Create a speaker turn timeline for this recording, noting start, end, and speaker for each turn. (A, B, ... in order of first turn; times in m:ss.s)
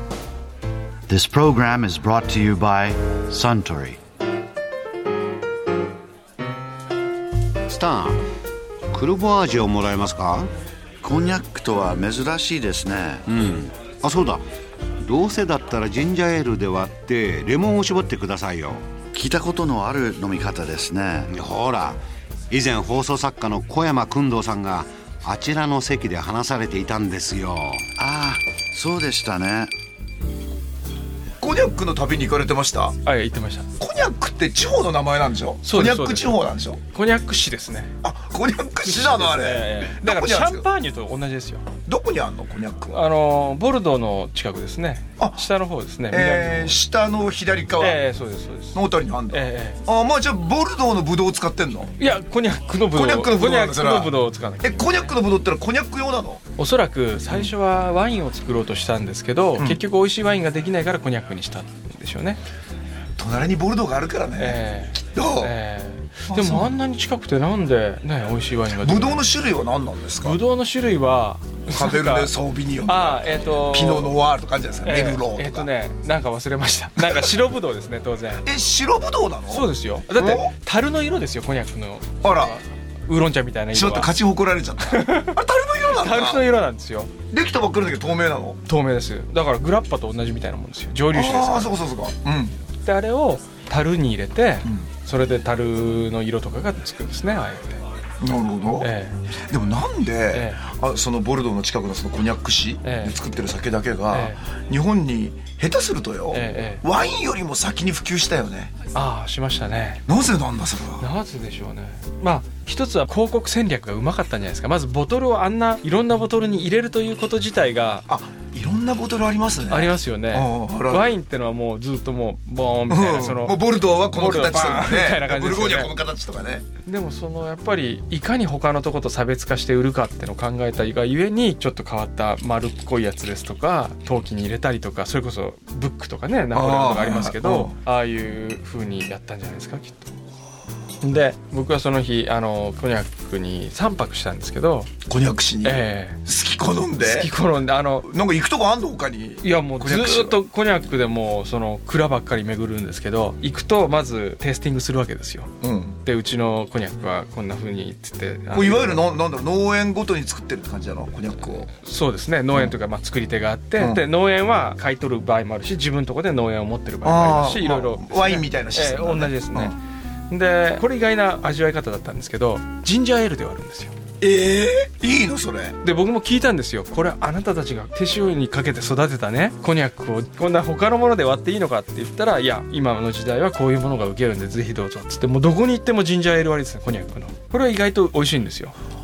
0:01.1-0:04.0 A
0:07.7-0:08.2 B
0:08.9-0:10.5 B
0:11.0-0:13.2 A
0:13.3-0:14.4 B
0:15.0-0:18.9 B
0:19.1-0:21.3 A
0:21.3-0:27.9 B
0:28.0-0:29.7 A
0:31.4-0:32.9 C
0:33.0-0:33.7 D
0:33.8-0:36.8 C
0:35.6-0:37.9 D
0:38.0-0:40.6 C
0:38.8-0:41.6 D
0:41.8-0:43.0 C
0:42.9-0:46.8 D
0:45.2-0:45.4 C
0:46.1-0:48.0 C
0:47.8-0:49.8 D
0:48.7-0:51.9 C
0:52.0-0:55.1 D
0:52.9-0:56.4 C
0:56.6-1:02.4 D
1:03.2-1:05.5 C
1:04.4-1:09.2 D
1:06.3-1:06.7 C
1:08.7-1:10.4 C
1:10.2-1:12.3 D
1:11.7-1:15.7 C
1:12.8-1:14.1 D
1:14.8-1:18.4 D
1:18.4-1:20.5 C
1:19.5-1:24.1 D
1:22.2-1:22.5 C
1:23.7-1:26.4 C
1:24.8-1:25.4 D
1:25.9-1:27.1 D
1:27.3-1:28.6 C
1:28.6-1:31.7 D
1:31.1-1:32.6 C
1:32.8-1:37.8 D
1:38.2-1:38.9 C
1:38.8-1:39.2 D
1:39.5-1:48.7 C
1:40.3-1:40.6 D
1:42.8-1:43.2 D
1:44.1-1:44.4 D
1:46.3-1:46.8 D
1:48.9-1:50.0 D
1:50.1-1:51.1 C
1:51.0-1:58.0 D
1:58.1-2:01.1 C
1:59.7-2:05.9 D
2:02.9-2:06.6 C
2:06.8-2:20.1 D
2:16.5-2:17.7 C
2:21.0-2:24.9 D
2:25.0-2:27.3 C
2:25.6-2:26.2 D
2:27.0-2:28.1 D
2:28.0-2:30.4 C
2:29.4-2:35.5 D
2:35.6-2:36.0 C
2:36.0-2:39.1 D
2:38.5-2:41.7 C
2:41.7-2:49.8 D
2:43.8-2:44.0 C
2:47.0-2:49.7 C
2:50.3-2:53.9 D
2:54.2-2:55.8 C
2:55.8-3:08.7 D